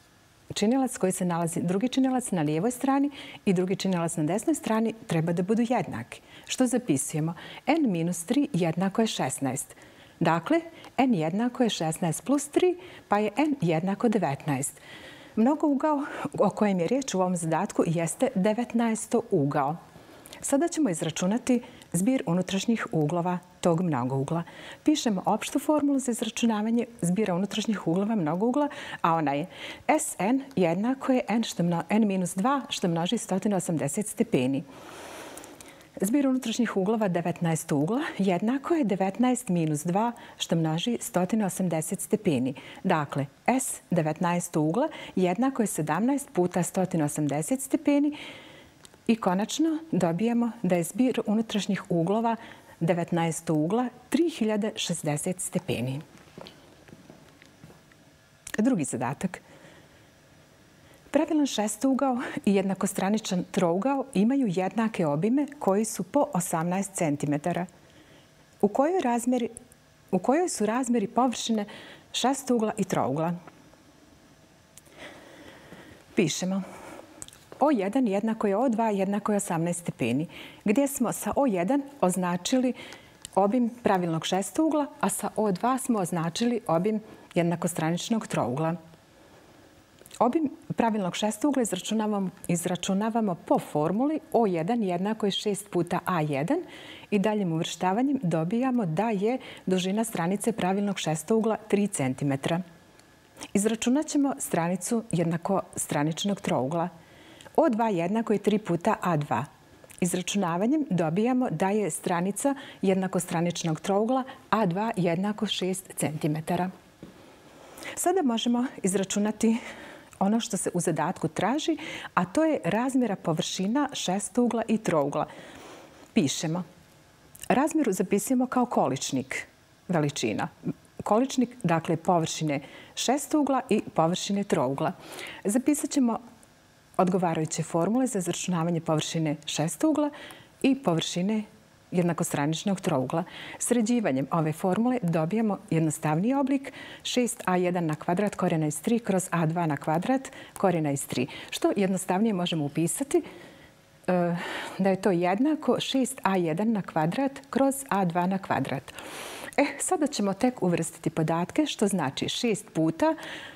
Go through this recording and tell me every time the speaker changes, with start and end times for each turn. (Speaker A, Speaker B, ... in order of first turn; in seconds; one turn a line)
Speaker A: 0.5-14.8
Speaker A: 15.3-19.8
Speaker A: 20.4-34.6
Speaker A: 36.0-48.2
Speaker A: 49.1-56.0
Speaker A: 58.6-59.4
Speaker A: 61.1-67.7
Speaker A: 68.6-69.5
Speaker A: 70.1-73.4
Speaker A: 76.2-76.6
Speaker A: 77.6-82.8
Speaker A: 83.3-88.8
Speaker A: 90.2-102.6
Speaker A: 103.5-106.9
Speaker A: 107.6-109.5
Speaker A: 110.0-116.7
Speaker A: 118.0-119.6
Speaker A: 120.2-125.3
Speaker A: 126.1-126.6
Speaker A: 127.5-130.5
Speaker A: 131.0-136.2
Speaker A: 137.0-153.2
Speaker A: 154.1-158.9
Speaker A: 159.6-163.2